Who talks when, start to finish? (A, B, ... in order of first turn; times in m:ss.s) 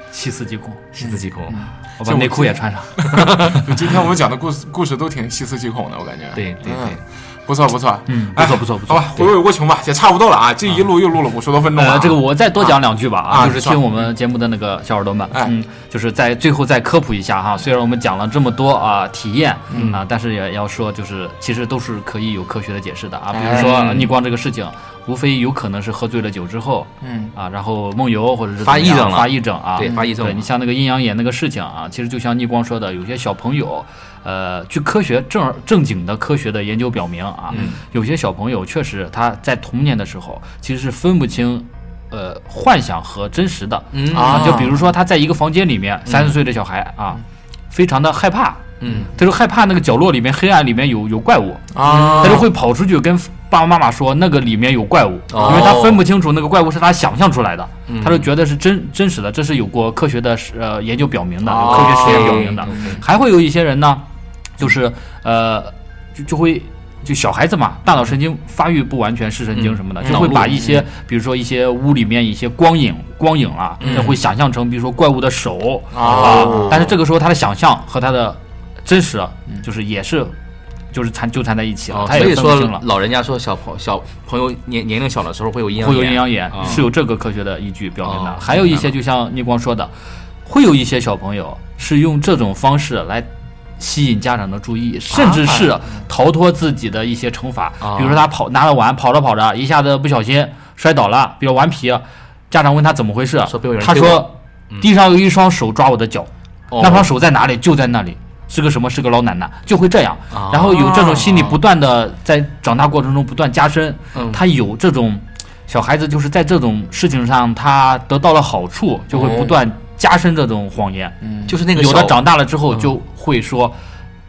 0:00.1-0:00.8 A
0:00.9-0:01.7 B
0:01.0-0:14.1 C
0:02.0-0:03.6 A
0:03.1-0:03.7 B
0:06.3-0:07.0 B
0:08.1-0:09.3 A
0:11.7-1:04.0 A
0:19.7-0:19.9 C
0:19.7-0:20.0 B
0:23.3-0:23.7 C
0:23.5-0:24.1 B
0:27.0-0:27.3 C
0:28.6-0:30.4 B
0:37.5-0:37.8 B
0:43.9-0:44.7 B
0:44.1-0:44.9 C
0:46.0-0:46.3 B
0:48.8-0:49.1 B
0:51.7-0:52.5 C
0:51.8-0:52.4 B
0:55.3-0:56.0 B
0:55.4-0:55.7 C
0:57.9-0:58.3 B
1:01.4-1:03.0 C
1:01.7-1:03.0 B
1:04.6-1:20.3 A
1:09.5-1:10.6 B
1:10.0-1:10.8 C
1:13.8-1:14.2 B
1:15.9-1:16.9 C
1:16.0-1:16.9 B
1:20.9-1:22.8 A
1:21.9-1:26.9 B
1:25.8-1:29.9 A
1:28.0-1:28.9 B
1:30.4-1:33.3 A
1:33.8-2:01.2 A
1:35.1-1:36.0 C
1:37.8-1:38.2 B
1:43.4-1:44.9 B
1:46.7-1:47.1 B
1:50.3-1:50.9 B
1:50.7-1:51.5 C
1:54.1-1:54.4 B
1:59.1-1:59.6 B
2:01.2-2:01.6 C
2:01.4-2:02.9 B
2:01.7-2:03.8 A